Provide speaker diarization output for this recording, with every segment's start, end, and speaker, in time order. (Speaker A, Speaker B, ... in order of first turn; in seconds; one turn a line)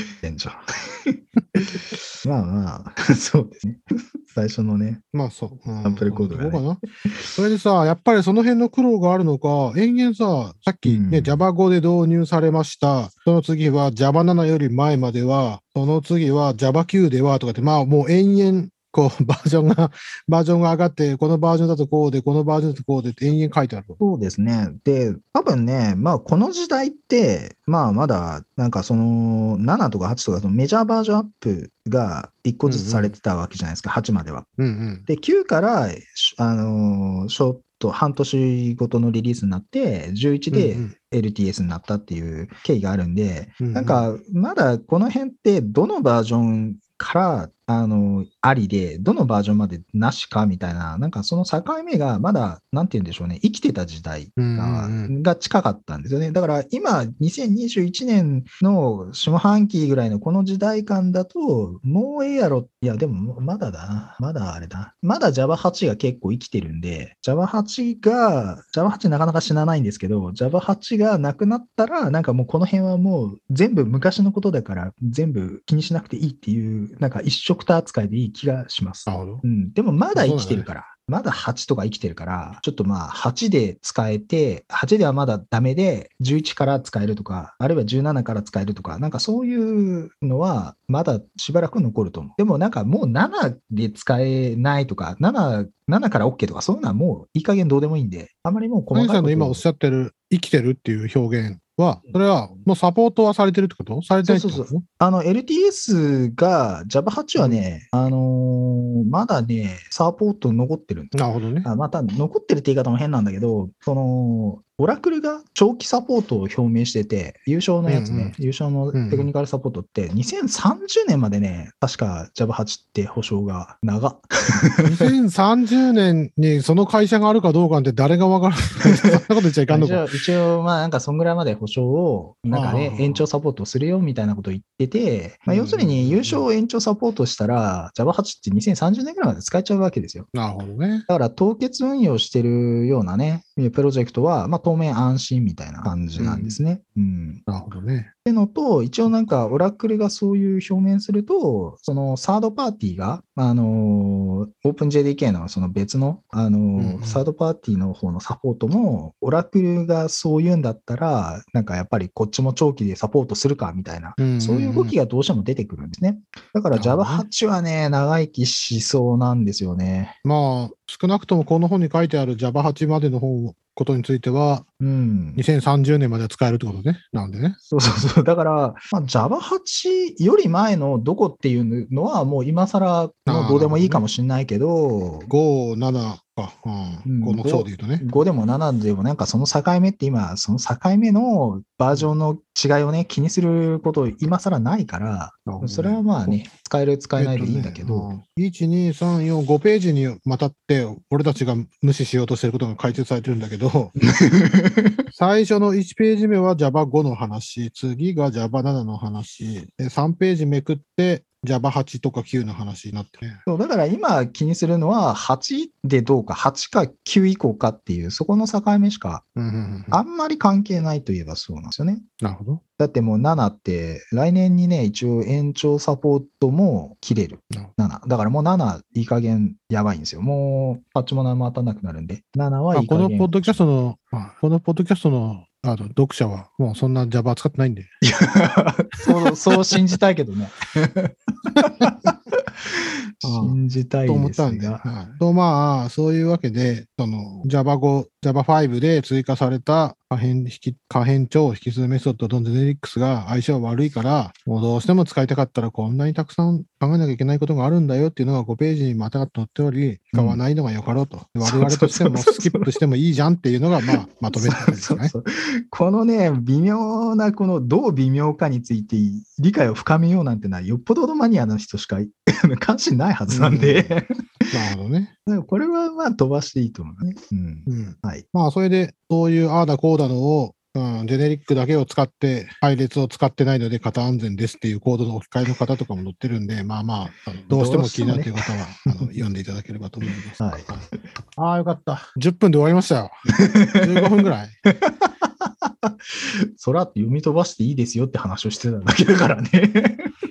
Speaker A: 0.2-5.0
Speaker B: 5.1-6.8
Speaker A: 5.8-7.3
Speaker B: 7.3-24.0
Speaker A: 10.8-11.4
Speaker A: 24.0-34.5
Speaker B: 32.7-33.1
Speaker B: 34.6-35.0
Speaker A: 35.1-99.6
Speaker B: 40.5-40.9
Speaker B: 43.6-44.1
Speaker B: 54.4-55.1
Speaker B: 79.1-79.4
Speaker B: 80.2-80.7
Speaker B: 98.9-104.8
Speaker A: 104.2-125.1
Speaker B: 107.4-107.6
Speaker B: 111.1-111.7
Speaker B: 117.9-118.4
Speaker B: 118.9-119.3
Speaker B: 124.8-130.2
Speaker A: 128.8-140.3
Speaker B: 132.5-133.2
Speaker B: 135.5-136.5
Speaker B: 140.3-141.1
Speaker A: 141.1-147.4
Speaker B: 146.2-146.6
Speaker B: 147.5-148.1
Speaker A: 148.2-170.2
Speaker B: 156.8-157.2
Speaker B: 164.2-164.9
Speaker B: 166.7-167.3
Speaker B: 170.2-174.7
Speaker A: 174.8-175.4
Speaker B: 175.4-177.6
Speaker A: 177.7-185.3
Speaker B: 183.3-184.0
Speaker B: 185.3-188.0
Speaker A: 187.1-198.1
Speaker B: 195.5-196.4
Speaker B: 197.2-203.9
Speaker A: 204.0-205.1
Speaker B: 205.1-213.4
Speaker A: 213.5-219.2
Speaker B: 219.4-220.0
Speaker A: 219.9-222.1
Speaker B: 222.2-222.6
Speaker A: 222.8-233.6
Speaker B: 232.7-237.9
Speaker A: 238.0-244.8
Speaker B: 239.1-239.8
Speaker B: 243.2-265.1
Speaker A: 260.1-260.4
Speaker A: 261.4-262.8
Speaker A: 263.9-274.7
Speaker B: 273.3-273.9
Speaker B: 274.5-275.1
Speaker A: 275.3-278.3
Speaker B: 277.7-290.8
Speaker A: 287.5-289.1
Speaker A: 290.4-291.1
Speaker B: 291.4-293.1
Speaker A: 293.4-300.1
Speaker B: 293.8-294.6